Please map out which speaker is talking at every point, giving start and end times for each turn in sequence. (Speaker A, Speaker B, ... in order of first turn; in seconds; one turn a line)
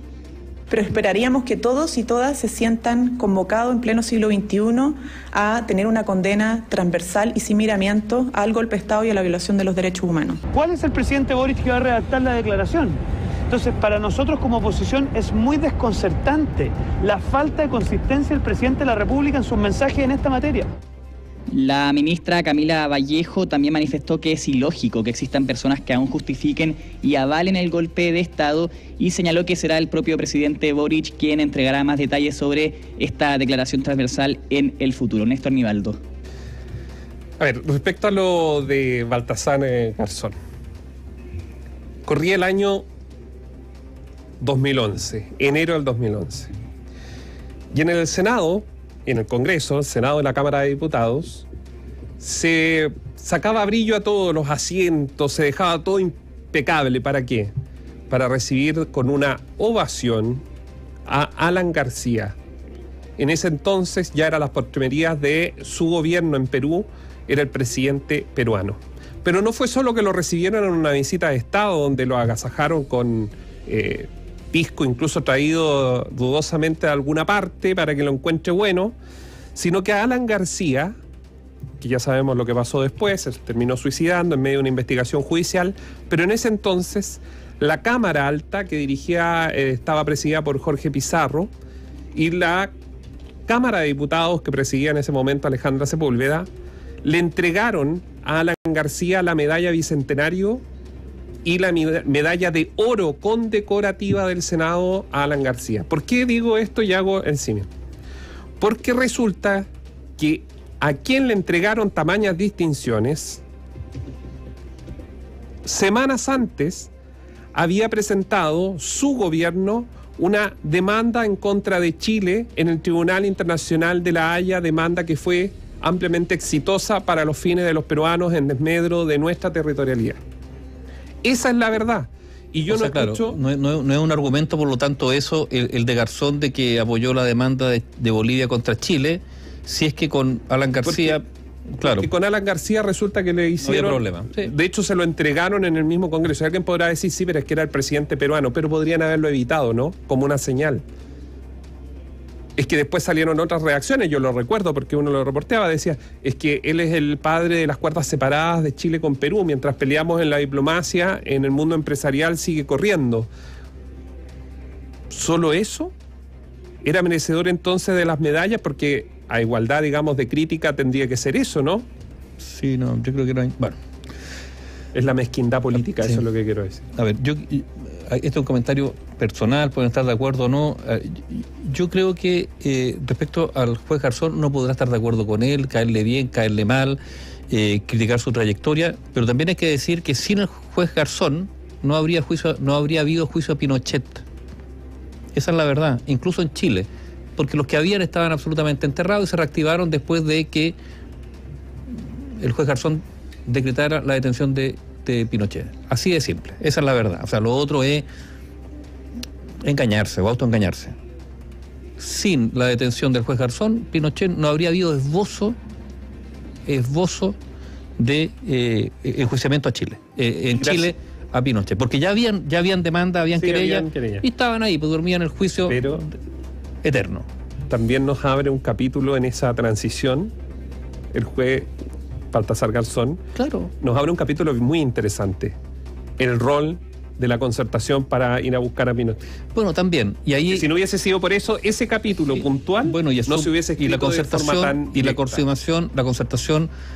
Speaker A: 0.7-10.4
Speaker B: 10.5-20.7
Speaker C: 21.5-36.0
Speaker D: 37.4-40.3
Speaker D: 42.0-42.8
Speaker D: 44.4-46.5
Speaker D: 47.7-51.5
Speaker D: 52.2-57.5
Speaker D: 58.1-60.4
Speaker D: 61.1-62.4
Speaker D: 63.2-79.0
Speaker D: 79.5-81.0
Speaker D: 81.8-91.5
Speaker D: 92.1-92.7
Speaker D: 93.5-96.5
Speaker D: 97.0-100.6
Speaker D: 101.4-107.7
Speaker D: 108.6-113.4
Speaker D: 115.6-116.9
Speaker D: 117.5-130.2
Speaker D: 131.2-133.3
Speaker E: 132.7-141.2
Speaker D: 140.8-141.2
Speaker E: 141.8-142.1
Speaker D: 141.8-150.8
Speaker E: 143.6-144.5
Speaker D: 152.6-163.3
Speaker D: 165.1-165.9
Speaker D: 166.8-171.8
Speaker E: 172.4-173.7
Speaker D: 174.9-176.8
Speaker E: 175.9-176.2
Speaker E: 176.9-187.0
Speaker E: 187.5-194.2
Speaker E: 195.3-200.8
Speaker E: 202.4-208.0
Speaker E: 209.6-210.9
Speaker E: 212.0-215.6
Speaker E: 216.7-217.3
Speaker E: 218.0-225.8
Speaker D: 220.6-220.9
Speaker D: 223.4-224.2
Speaker D: 225.7-226.0
Speaker E: 226.8-227.3
Speaker D: 227.7-230.3
Speaker D: 231.1-231.7
Speaker D: 232.3-233.2
Speaker E: 233.3-233.7
Speaker D: 233.8-235.6
Speaker D: 236.2-239.2
Speaker E: 239.5-240.7
Speaker D: 240.5-245.4
Speaker E: 242.8-246.7